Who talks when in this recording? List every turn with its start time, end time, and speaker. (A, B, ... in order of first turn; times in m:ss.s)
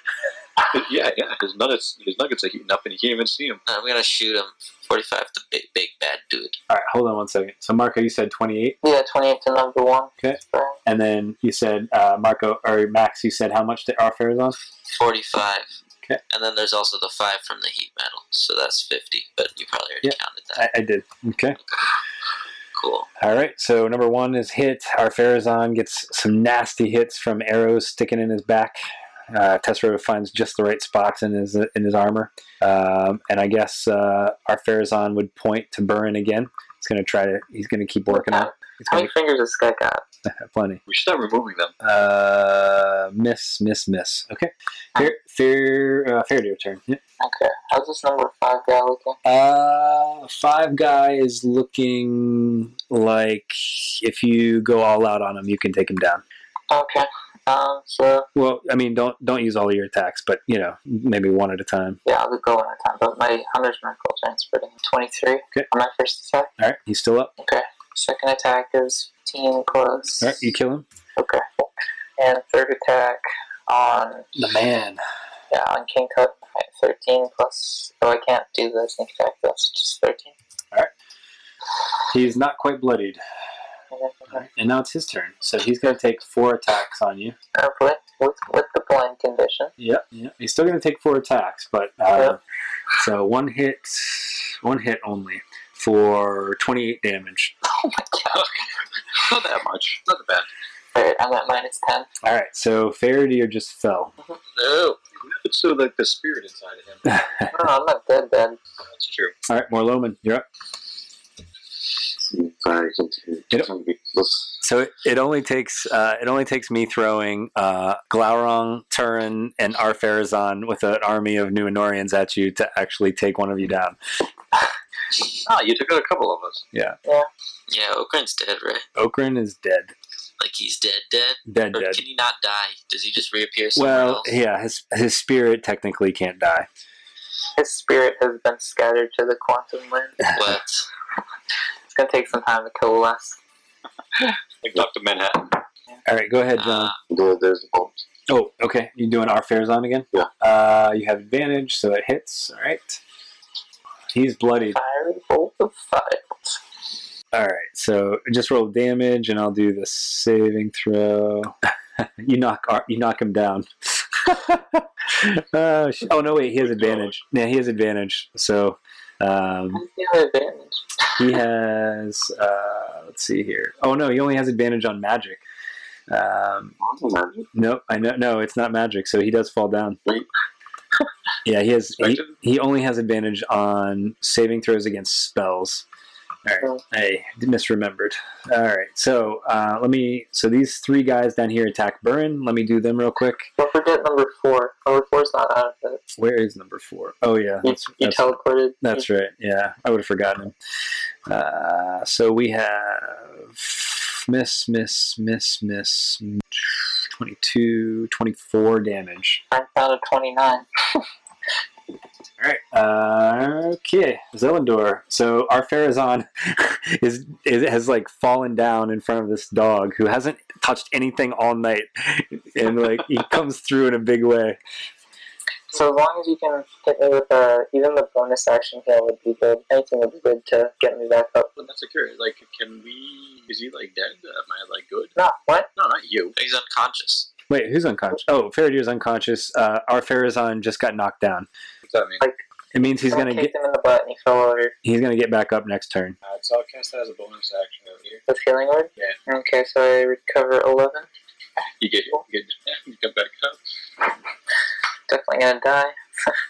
0:00.7-0:03.6 A
0:03.7-0:06.6 B
0:06.7-0:08.8 C
0:08.8-0:10.8 D
0:10.2-0:14.6 C
0:14.9-0:15.7 B
0:16.3-0:20.7 B
0:20.0-0:21.6 C
0:22.8-0:23.1 B
0:23.2-0:28.8 C
0:29.3-0:39.1 C
0:38.1-0:40.0 D
0:40.2-0:40.8 C
0:40.9-0:41.7 A
0:41.8-0:47.0 C
0:47.2-0:49.2 D
0:49.2-0:56.2 C
0:56.7-0:58.3 D
0:58.3-1:02.0 C
1:02.0-1:06.5 D
1:06.6-1:07.3 C
1:07.4-1:10.4 D
1:10.2-1:10.8 C
1:11.2-1:14.3 D
1:14.3-1:15.0 C
1:15.5-1:20.3 D
1:22.1-1:23.2 C
1:23.9-1:24.4 D
1:24.3-1:27.4 C
1:27.5-1:29.7 D
1:29.8-1:32.4 C
1:33.0-1:37.5 C
1:37.7-1:38.6 D
1:39.1-1:40.5 A
1:40.9-1:42.1 D
1:42.2-1:44.1 C
1:44.6-1:47.1 A
1:47.0-1:47.5 C
1:47.5-1:48.6 D
1:48.9-1:49.4 A
1:49.5-1:50.4 C
1:52.2-1:54.6 E
1:54.6-2:04.0 C
2:05.4-2:06.6 A
2:06.7-2:07.0 C
2:07.7-2:08.8 B
2:09.0-2:09.9 C
2:10.4-2:14.3 B
2:11.5-2:12.0 C
2:13.8-2:16.7 C
2:17.6-2:20.2 D
2:20.3-2:20.8 B
2:21.9-2:23.4 D
2:24.6-2:25.6 A
2:26.0-2:26.9 C
2:26.6-2:27.0 B
2:27.1-2:28.0 E
2:28.3-2:33.0 C
2:34.1-2:34.8 C
2:34.7-2:36.6 D
2:37.3-2:49.8 C
2:46.5-2:47.1 A
2:49.7-2:50.8 D
2:51.2-2:55.4 C
2:56.1-2:56.8 C
2:56.8-2:57.5 E
2:57.5-3:00.0 C
3:01.4-3:05.8 C
3:02.0-3:02.3 A
3:06.4-3:13.5 C
3:13.6-3:16.0 D
3:16.2-3:20.5 C
3:17.6-3:19.0 D
3:21.3-3:29.4 C
3:29.5-3:30.7 D
3:32.4-3:44.6 C
3:45.7-3:51.5 D
3:51.6-3:55.2 A
3:55.2-3:55.7 D
3:55.8-3:56.4 A
3:56.4-3:57.3 B
3:57.5-4:01.5 C
4:01.8-4:02.2 A
4:02.7-4:03.5 C
4:03.1-4:04.7 D
4:04.8-4:06.2 C
4:06.2-4:08.2 A
4:08.3-4:11.1 D
4:11.8-4:13.6 A
4:15.1-4:16.3 D